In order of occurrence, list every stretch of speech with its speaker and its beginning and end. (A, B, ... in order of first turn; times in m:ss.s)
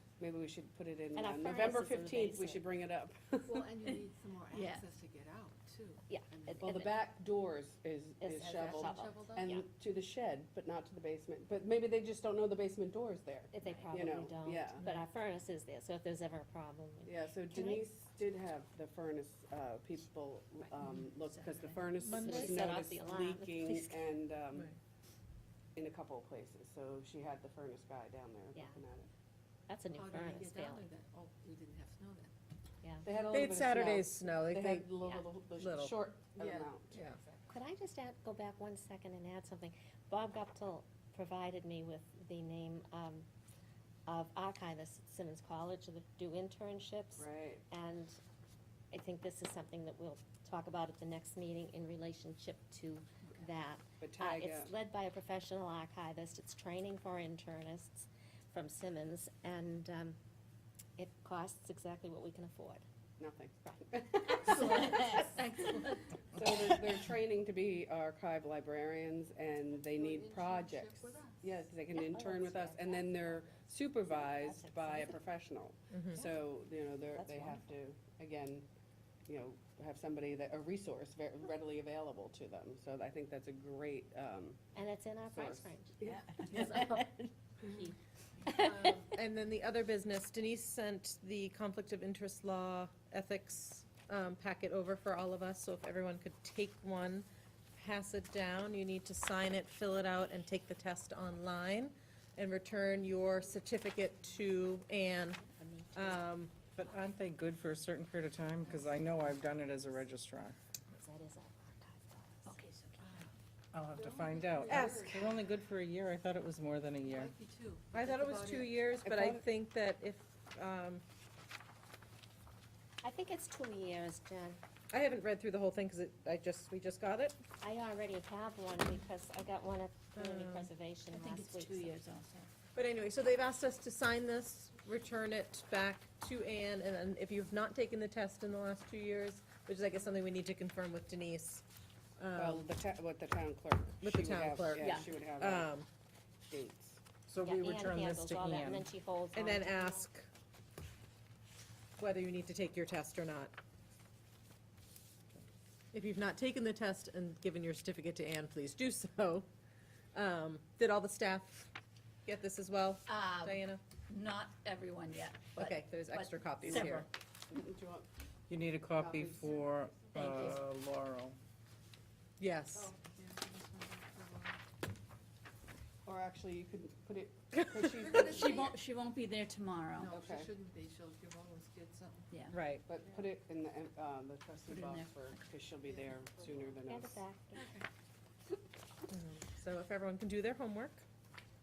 0:00.2-0:03.7 A
0:01.2-0:02.6 B
0:03.4-0:06.7 C
0:04.5-0:04.8 D
0:06.1-0:07.0 B
0:06.6-0:14.8 A
0:08.2-0:09.6 B
0:08.4-0:09.5 C
0:13.5-0:17.9 B
0:13.6-0:14.2 D
0:14.8-0:15.0 D
0:17.0-0:24.7 A
0:20.8-0:22.1 D
0:22.1-0:23.0 E
0:22.1-0:24.1 B
0:25.8-0:29.1 A
0:28.6-0:28.8 B
0:29.7-0:30.9 B
0:29.9-0:32.3 C
0:33.0-0:37.0 A
0:33.3-0:34.9 E
0:35.6-0:35.9 E
0:36.4-0:37.4 C
0:36.9-0:37.2 E
0:37.5-0:43.3 B
0:44.1-0:48.2 B
0:47.2-0:47.6 A
0:48.9-1:00.2 B
0:54.0-0:54.7 A
1:01.0-1:02.8 B
1:03.2-1:05.3 A
1:04.4-1:06.1 D
1:04.5-1:05.0 B
1:06.3-1:18.7 A
1:09.9-1:11.4 C
1:11.9-1:15.2 B
1:15.9-1:16.2 E
1:17.2-1:17.6 B
1:19.3-1:24.6 A
1:24.8-1:29.0 B
1:25.3-1:26.9 A
1:26.0-1:27.0 D
1:28.6-1:45.4 E
1:45.4-1:46.2 B
1:46.0-1:46.6 E
1:46.7-1:50.6 F
1:48.6-1:49.0 C
1:50.9-1:52.6 B
1:52.4-1:53.3 D
1:53.7-1:57.3 F
1:54.0-1:55.2 C
1:54.7-1:55.1 E
1:57.1-1:58.9 C
1:57.9-2:01.0 E
1:59.0-1:59.4 A
2:03.0-2:04.6 B
2:04.9-2:07.4 E
2:07.6-2:11.9 B
2:10.2-2:10.7 E
2:11.1-2:12.5 D
2:12.7-2:21.6 E
2:22.2-2:22.7 E
2:22.4-2:25.7 A
2:24.0-2:25.9 E
2:24.8-2:25.0 B
2:26.5-2:27.0 A
2:27.3-2:28.9 F
2:27.4-2:30.1 B
2:29.4-2:30.3 E
2:32.0-2:33.5 E
2:35.9-2:39.5 E
2:40.1-2:41.7 E
2:42.3-2:43.8 E
2:43.1-2:47.1 D
2:45.6-2:47.1 E
2:46.7-2:47.0 A
2:47.5-2:48.1 A
2:48.5-2:51.4 F
2:49.0-2:49.6 A
2:49.6-2:50.1 C
2:50.1-2:50.6 D
2:52.4-2:52.9 E
2:52.8-2:54.6 C
2:56.0-2:58.5 A
2:58.0-2:58.7 C
2:58.1-3:00.2 D
3:00.0-3:02.3 C
3:00.1-3:00.5 A
3:02.3-3:02.6 D
3:02.5-3:02.8 E
3:02.9-3:07.2 A
3:04.7-3:05.4 D
3:05.9-3:06.7 C
3:06.9-3:07.8 B
3:07.6-3:07.8 C
3:09.1-3:11.0 E